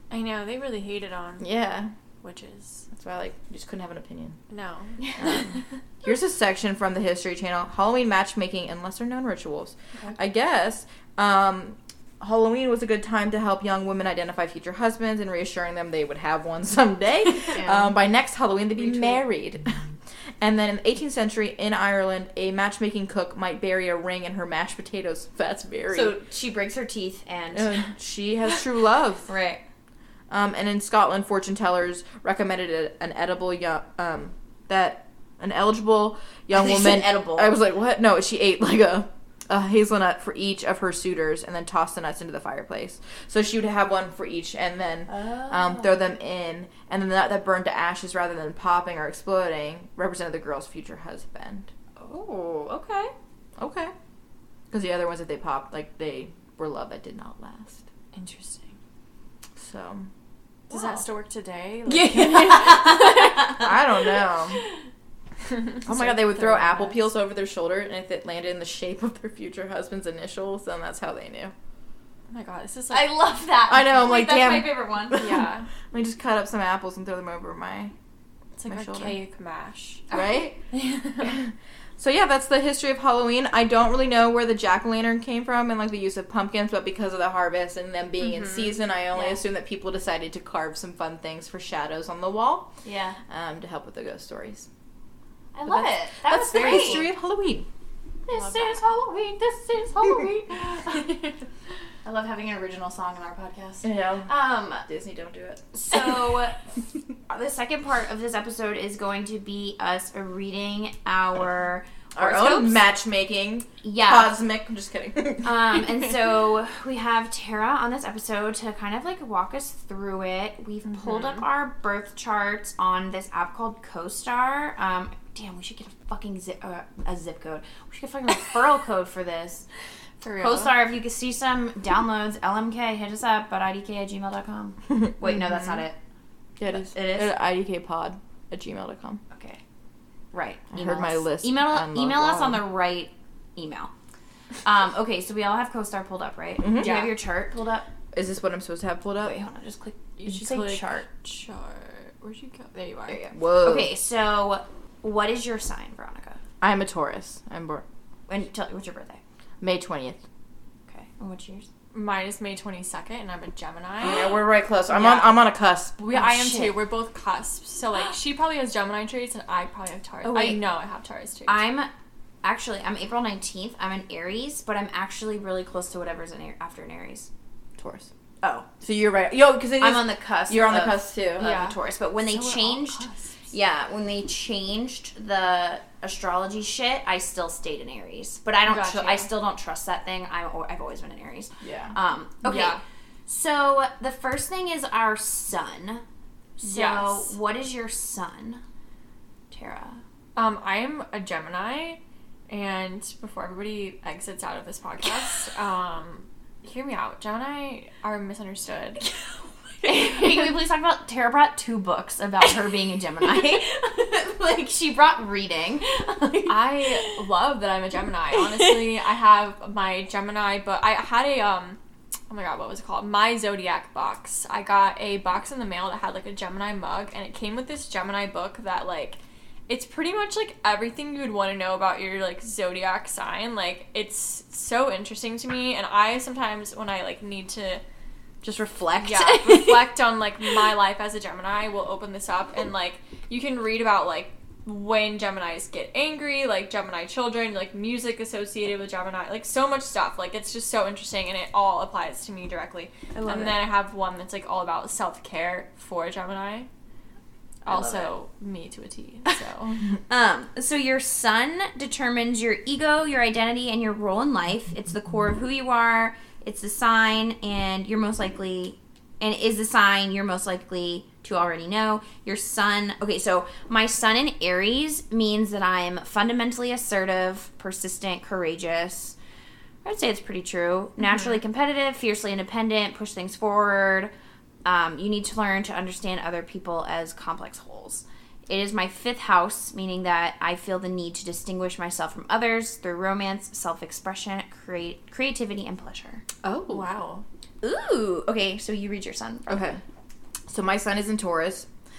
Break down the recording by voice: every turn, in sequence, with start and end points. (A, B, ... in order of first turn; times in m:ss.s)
0:00.1-0:01.6 A
0:01.4-0:01.9 B
0:02.2-0:02.9 A
0:02.9-0:04.4 B
0:04.5-0:05.6 A
0:05.2-0:26.1 B
0:17.5-0:17.9 C
0:18.8-0:19.2 A
0:25.9-0:27.9 C
0:27.5-0:29.3 B
0:29.2-0:29.6 C
0:30.3-0:51.7 B
0:36.5-0:37.6 C
0:45.1-0:46.0 C
0:52.0-0:53.1 C
0:53.6-0:53.9 B
0:54.7-0:57.8 B
0:58.1-0:58.7 A
0:59.6-1:00.1 B
1:00.7-1:03.6 A
1:01.9-1:02.6 B
1:02.3-1:04.0 C
1:03.5-1:04.6 B
1:05.5-1:07.0 A
1:05.8-1:11.5 B
1:12.3-1:13.2 A
1:12.9-1:15.2 C
1:13.7-1:17.9 B
1:15.1-1:15.7 A
1:18.6-1:20.2 A
1:18.7-1:19.2 B
1:20.1-1:20.6 B
1:20.1-1:20.4 C
1:20.7-1:21.3 A
1:21.2-1:32.7 B
1:28.2-1:28.7 A
1:29.1-1:29.4 C
1:32.8-1:33.2 C
1:33.3-1:34.7 B
1:35.5-1:37.1 C
1:35.7-1:37.7 B
1:36.5-1:37.0 A
1:38.2-1:41.2 C
1:38.3-1:38.8 A
1:42.0-1:44.8 C
1:43.8-1:44.3 B
1:44.8-1:46.1 B
1:45.7-1:46.6 C
1:47.3-1:52.9 C
1:52.2-1:55.8 B
1:53.8-1:54.3 C
1:55.4-2:09.7 C
2:00.9-2:01.4 A
2:10.2-2:10.7 A
2:10.4-2:16.0 C
2:15.2-2:15.8 B
2:16.6-2:19.2 B
2:16.7-2:17.3 C
2:19.3-2:19.6 C
2:20.3-2:23.9 C
2:20.7-2:22.6 B
2:24.6-2:27.9 C
2:26.6-2:27.1 B
2:26.8-2:27.1 A
2:28.1-2:29.4 B
2:29.2-2:31.1 C
2:30.2-2:33.2 A
2:33.1-2:36.4 C
2:33.3-2:33.9 B
2:36.6-2:37.8 B
2:38.3-2:39.2 C
2:39.6-2:40.2 B
2:40.9-2:41.7 C
2:41.9-2:44.3 A
2:44.0-2:46.0 B
2:44.9-2:45.4 C
2:46.0-2:51.6 A
2:46.1-2:46.8 C
2:50.2-2:50.6 C
2:51.4-2:51.9 C
2:52.4-2:57.3 C
2:57.8-2:58.1 B
2:58.4-2:58.7 C
2:58.8-3:01.5 B
2:59.8-3:16.0 C
3:01.4-3:03.3 A
3:08.6-3:09.3 A
3:11.6-3:11.9 B
3:12.4-3:12.8 A
3:16.6-3:18.6 C
3:16.6-3:17.3 A
3:19.5-3:20.0 C
3:20.3-3:29.0 A
3:29.8-3:37.1 C
3:29.8-3:30.6 A
3:36.5-3:41.8 A
3:38.4-3:38.6 C
3:42.3-3:57.8 A
3:58.4-3:59.9 C
3:59.0-4:16.7 A
4:13.1-4:13.6 C
4:17.6-4:19.9 A
4:17.7-4:18.1 C
4:20.1-4:39.2 C
4:39.8-4:44.1 C
4:44.6-4:56.2 C
4:56.4-4:56.8 B
4:56.7-4:57.2 A
4:57.6-4:59.8 C
4:59.5-4:59.8 B
5:00.5-5:01.7 B